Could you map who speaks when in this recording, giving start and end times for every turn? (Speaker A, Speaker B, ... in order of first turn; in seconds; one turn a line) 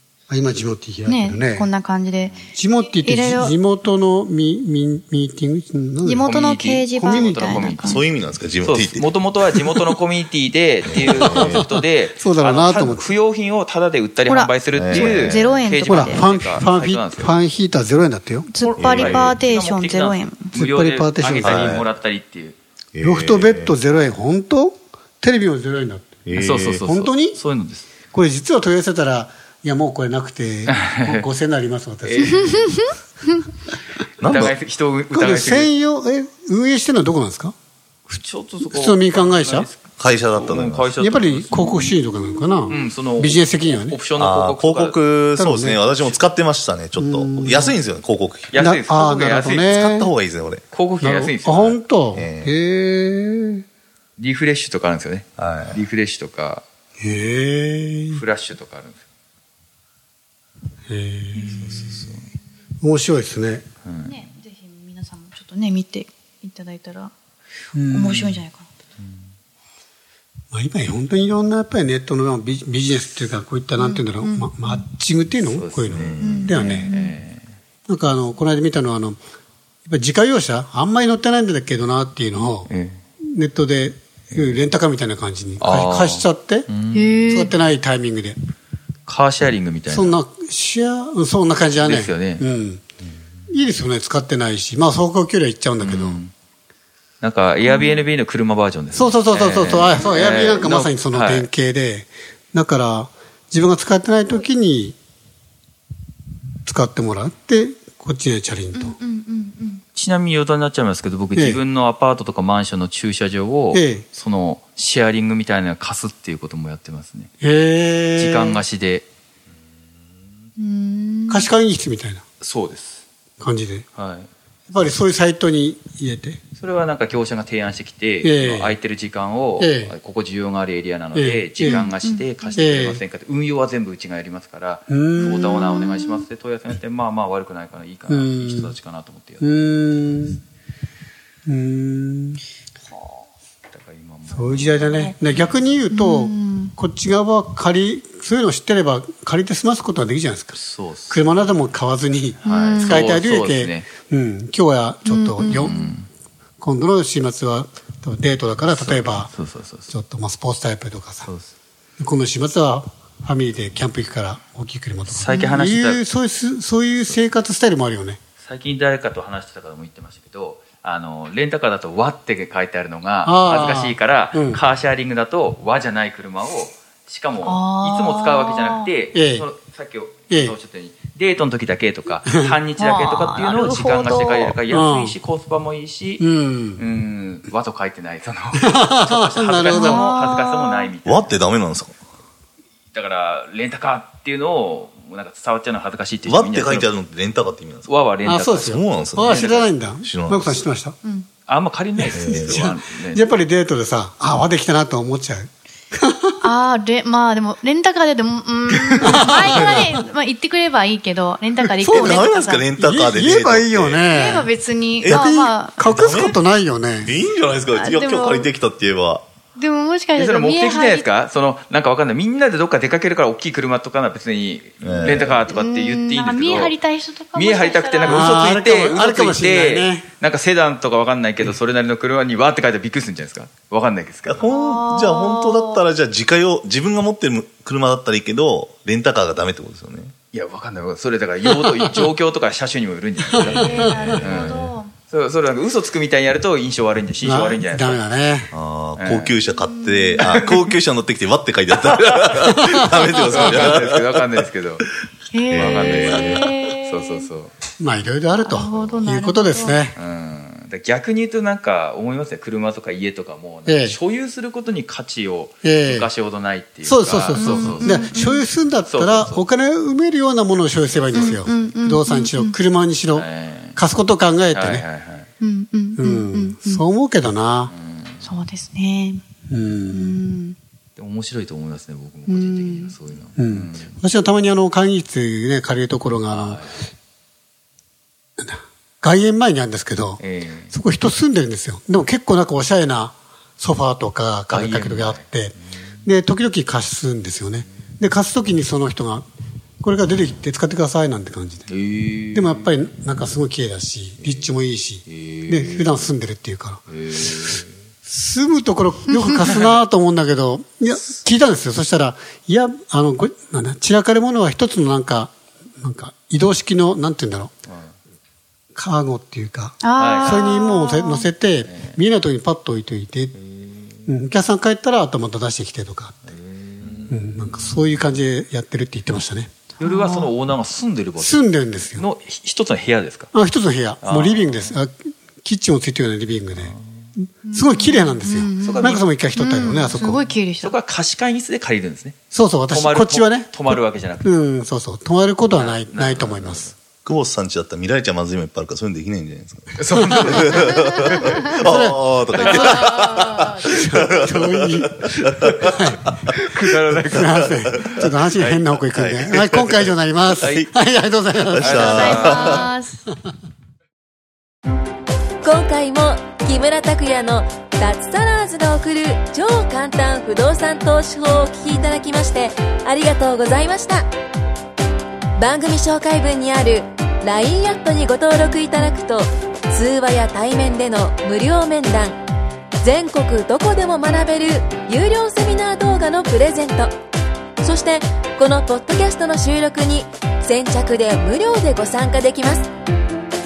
Speaker A: 0.3-1.7
Speaker B: 1.0-3.5
Speaker A: 2.5-6.3
Speaker B: 6.0-8.1
Speaker C: 6.2-8.0
Speaker A: 6.9-7.7
Speaker D: 7.8-9.1
Speaker C: 8.6-17.4
Speaker D: 10.9-11.6
Speaker A: 11.0-13.1
Speaker B: 14.3-16.2
Speaker D: 14.7-15.6
Speaker A: 15.9-18.5
Speaker B: 18.5-20.5
Speaker C: 18.6-22.6
Speaker D: 18.8-19.4
Speaker A: 20.5-21.7
Speaker D: 21.4-21.9
Speaker D: 22.9-23.7
Speaker A: 23.0-27.4
Speaker D: 26.2-26.8
Speaker C: 26.3-27.9
Speaker A: 28.1-32.9
Speaker C: 30.7-31.2
Speaker C: 32.0-32.7
Speaker D: 34.2-34.5
Speaker C: 34.2-35.7
Speaker A: 35.1-37.5
Speaker C: 38.1-42.0
Speaker A: 38.7-39.7
Speaker D: 40.0-40.9
Speaker A: 41.0-44.0
Speaker C: 42.7-45.0
Speaker D: 44.2-48.5
Speaker A: 45.4-45.8
Speaker A: 47.0-47.8
Speaker C: 48.5-49.7
Speaker A: 48.5-50.1
Speaker D: 49.6-50.6
Speaker C: 50.7-51.8
Speaker A: 51.0-53.6
Speaker D: 52.1-52.5
Speaker C: 54.2-56.6
Speaker D: 55.4-55.8
Speaker A: 57.0-58.2
Speaker C: 58.1-59.0
Speaker A: 60.9-62.0
Speaker B: 61.4-61.8
Speaker C: 61.5-62.3
Speaker A: 62.8-63.6
Speaker C: 63.8-64.2
Speaker B: 64.0-67.1
Speaker A: 67.7-68.4
Speaker B: 67.8-68.7
Speaker A: 70.5-76.9
Speaker B: 73.8-74.8
Speaker C: 75.4-77.5
Speaker D: 75.9-76.5
Speaker B: 76.2-77.2
Speaker A: 77.9-79.2
Speaker A: 79.8-82.7
Speaker C: 82.7-83.0
Speaker A: 83.2-86.7
Speaker C: 85.6-87.2
Speaker B: 86.9-87.5
Speaker A: 87.3-88.4
Speaker C: 89.0-90.2
Speaker A: 89.9-92.8
Speaker C: 91.8-92.5
Speaker A: 93.5-96.2
Speaker C: 95.8-96.3
Speaker C: 97.2-101.5
Speaker B: 97.6-98.0
Speaker A: 98.9-105.0
Speaker A: 106.6-109.0
Speaker B: 108.7-109.8
Speaker C: 109.9-117.3
Speaker A: 111.3-111.6
Speaker A: 113.7-114.0
Speaker A: 117.4-118.6
Speaker C: 118.2-119.1
Speaker B: 120.6-121.5
Speaker A: 121.3-122.2
Speaker C: 122.4-123.0
Speaker A: 123.4-123.8
Speaker C: 123.9-124.3
Speaker A: 124.7-126.4
Speaker C: 126.5-140.4
Speaker A: 128.2-128.8
Speaker A: 129.6-129.9
Speaker A: 131.1-131.9
Speaker B: 131.6-132.8
Speaker A: 132.5-133.0
Speaker A: 134.9-135.8
Speaker B: 135.2-136.2
Speaker A: 138.1-138.7
Speaker A: 139.4-140.4
Speaker A: 141.4-142.4
Speaker C: 142.9-145.6
Speaker A: 144.3-150.6
Speaker B: 144.5-145.2
Speaker B: 145.9-146.7
Speaker C: 150.5-151.5
Speaker A: 151.1-155.8
Speaker B: 152.4-153.1
Speaker C: 152.4-153.9
Speaker B: 155.0-155.9
Speaker C: 155.5-156.1
Speaker A: 156.6-159.3
Speaker C: 158.7-159.9
Speaker A: 159.9-161.3
Speaker C: 161.2-161.5
Speaker A: 162.0-168.2
Speaker C: 165.1-166.0
Speaker C: 168.4-186.2
Speaker A: 173.2-174.6
Speaker B: 177.4-178.9
Speaker A: 179.1-179.5
Speaker A: 180.3-180.6
Speaker A: 182.2-182.6
Speaker B: 182.8-184.6
Speaker A: 184.7-185.2
Speaker A: 186.2-186.8
Speaker C: 186.8-191.3
Speaker A: 188.6-190.1
Speaker B: 189.7-190.9
Speaker D: 191.0-191.9
Speaker C: 192.9-196.9
Speaker D: 196.2-198.0
Speaker C: 197.9-199.7
Speaker A: 198.2-200.9
Speaker D: 198.6-200.7
Speaker C: 201.5-203.3
Speaker A: 202.0-206.5
Speaker D: 202.1-202.7
Speaker B: 206.4-212.8
Speaker C: 208.8-209.7
Speaker A: 209.0-209.9
Speaker A: 211.8-214.5
Speaker D: 211.9-214.1
Speaker B: 214.0-216.3
Speaker D: 215.0-215.3
Speaker A: 215.0-217.2
Speaker D: 215.9-216.3
Speaker D: 217.0-219.2
Speaker B: 217.7-218.5
Speaker B: 219.6-221.1
Speaker C: 220.2-226.7
Speaker D: 224.8-225.5
Speaker B: 225.2-228.5
Speaker C: 227.3-234.4
Speaker A: 228.0-230.1
Speaker D: 234.2-240.1
Speaker B: 234.4-235.8
Speaker C: 240.3-248.0
Speaker B: 243.4-244.9
Speaker A: 243.4-244.2
Speaker A: 247.2-248.5
Speaker D: 248.5-254.4
Speaker C: 249.0-249.3
Speaker B: 249.4-250.4
Speaker C: 251.8-254.8
Speaker B: 255.3-257.3
Speaker D: 255.5-256.4
Speaker C: 255.5-257.5
Speaker A: 257.8-259.9
Speaker B: 258.3-259.9
Speaker C: 259.9-268.1
Speaker A: 263.7-264.0
Speaker A: 265.6-266.1
Speaker A: 266.8-274.8
Speaker B: 267.3-268.4
Speaker C: 268.9-269.5
Speaker C: 270.9-271.6
Speaker B: 271.1-272.6
Speaker C: 273.1-273.8
Speaker C: 274.5-275.3
Speaker B: 275.4-276.8
Speaker A: 275.9-277.7
Speaker C: 277.7-278.3
Speaker B: 278.2-279.2
Speaker A: 279.5-280.2
Speaker B: 279.9-280.6
Speaker C: 280.9-283.9
Speaker B: 282.3-282.9
Speaker A: 283.4-286.6
Speaker C: 286.3-286.8
Speaker A: 288.4-299.3
Speaker C: 290.2-290.7
Speaker C: 294.5-295.2
Speaker A: 299.8-301.7
Speaker C: 301.7-302.7
Speaker A: 302.3-306.8
Speaker C: 305.1-306.1
Speaker C: 306.9-307.7
Speaker A: 308.1-317.5
Speaker C: 317.7-317.9
Speaker A: 318.7-323.3
Speaker B: 319.8-321.3
Speaker C: 319.9-320.6
Speaker C: 321.7-322.0
Speaker C: 323.4-324.0
Speaker A: 324.1-326.3
Speaker C: 326.3-327.7
Speaker A: 327.1-329.5
Speaker C: 329.8-333.3
Speaker B: 329.8-330.3
Speaker A: 331.2-332.1
Speaker A: 333.3-340.2
Speaker C: 334.0-334.8
Speaker B: 337.4-340.7
Speaker C: 338.6-339.0
Speaker C: 340.6-342.2
Speaker A: 342.3-346.7
Speaker C: 342.7-344.3
Speaker C: 345.5-346.7
Speaker D: 347.0-355.8
Speaker C: 349.8-351.6
Speaker A: 351.6-352.0
Speaker B: 352.4-353.5
Speaker A: 353.6-356.1
Speaker C: 356.3-358.8
Speaker A: 357.1-362.2
Speaker D: 358.9-360.7
Speaker C: 360.4-360.7
Speaker D: 361.5-362.6
Speaker C: 361.6-362.7
Speaker B: 361.8-363.1
Speaker E: 365.4-374.1
Speaker E: 375.4-382.2
Speaker E: 382.8-386.9
Speaker E: 387.6-392.7